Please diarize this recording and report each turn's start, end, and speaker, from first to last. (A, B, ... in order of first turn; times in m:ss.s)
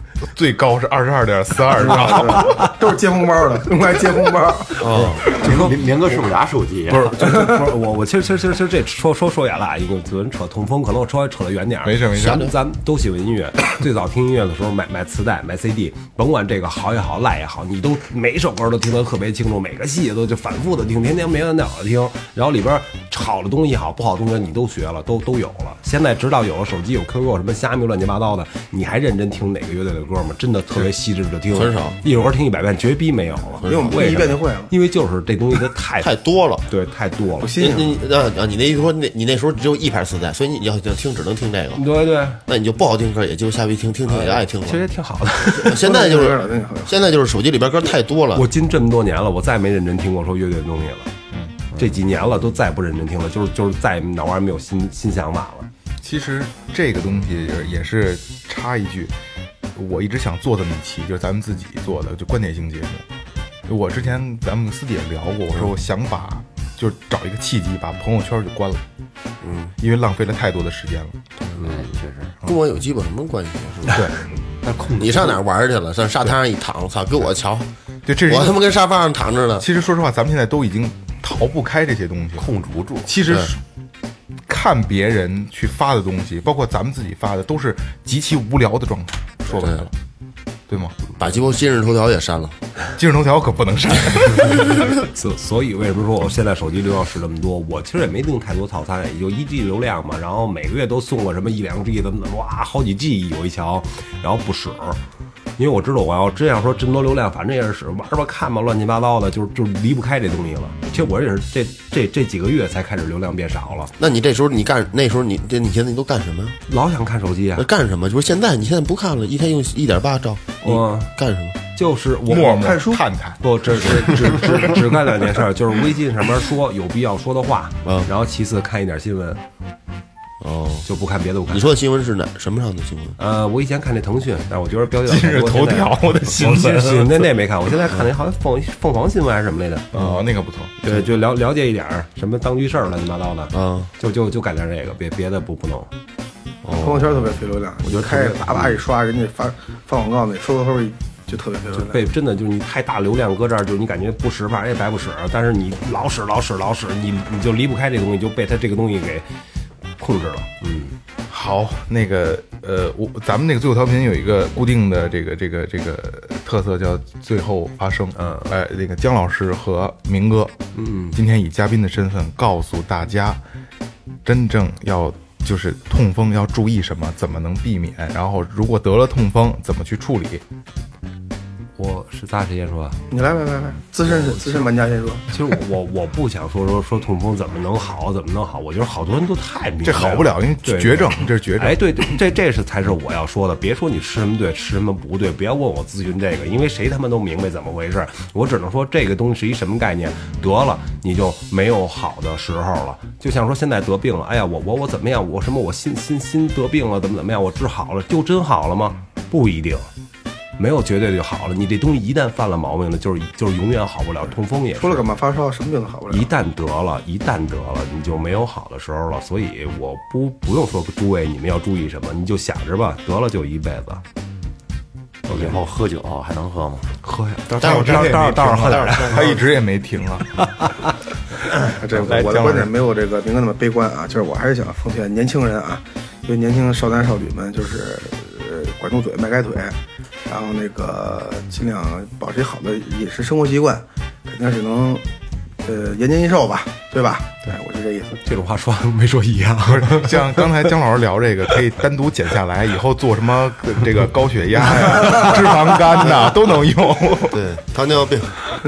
0:00.2-0:02.6 A
0:01.8-0:04.9 B
0:04.8-0:05.2 C
0:04.9-0:07.4 D
0:05.3-0:05.8 A
0:06.9-0:37.5 E
0:11.8-0:12.5 A
0:12.2-0:12.5 C
0:31.5-0:32.0 C
0:33.6-0:34.4 C
0:33.6-0:34.7 B
0:36.0-0:36.7 C
0:37.4-0:38.0 B
0:37.6-0:41.8 C
0:41.8-0:42.4 E
0:42.5-0:44.9 C
0:44.1-0:45.8 E
0:45.5-0:48.5 C
0:45.7-0:47.0 B
0:48.3-0:51.1 E
0:51.3-0:51.6 A
0:51.8-0:55.7 E
0:56.0-0:59.1 A
0:59.7-1:03.0 A
1:03.7-1:08.8 A
1:09.4-1:09.7 C
1:09.8-1:11.2 A
1:11.5-1:12.4 D
1:12.4-1:14.0 C
1:13.9-1:15.4 E
1:15.0-1:17.7 C
1:18.1-1:18.6 A
1:18.3-1:19.7 C
1:19.6-1:22.5 A
1:22.4-1:23.1 D
1:23.0-1:23.6 A
1:24.5-1:29.9 A
1:30.7-1:31.0 A
1:31.2-1:32.6 C
1:33.0-1:34.8 A
1:34.8-1:45.0 E
1:45.6-1:53.9 E
1:54.0-1:56.6 C
1:56.7-1:57.7 E
1:57.6-2:01.6 C
2:00.6-2:01.1 E
2:01.8-2:02.8 E
2:02.3-2:04.7 A
2:02.6-2:03.0 B
2:03.4-2:09.4 E
2:10.4-2:10.9 C
2:10.8-2:11.7 E
2:11.5-2:13.2 C
2:13.2-2:20.1 E
2:15.0-2:17.3 A
2:19.9-2:20.7 A
2:20.8-2:25.9 E
2:23.5-2:23.9 C
2:26.6-2:27.1 C
2:26.8-2:32.0 B
2:27.8-2:28.7 E
2:31.7-2:39.3 E
2:40.0-2:41.0 E
2:41.3-2:50.6 A
2:48.2-2:48.5 E
2:50.8-2:51.2 E
2:51.1-2:53.4 A
2:54.2-3:00.4 A
3:01.8-3:03.0 E
3:03.1-3:05.3 B
3:04.0-3:04.7 E
3:05.3-3:29.9 E
3:09.8-3:12.2 A
3:30.6-3:35.1 E
3:34.8-3:36.3 B
3:36.1-3:44.0 E
3:45.3-3:46.9 D
3:45.3-3:45.6 E
3:47.1-3:50.4 A
3:47.4-3:49.3 E
3:47.6-3:49.3 C
3:50.4-3:50.8 E
3:51.7-3:59.8 B
3:51.9-3:52.7 A
4:00.3-4:05.0 B
4:05.6-4:08.2 B
4:08.2-4:10.7 E
4:09.6-4:17.4 A
4:17.3-4:18.3 C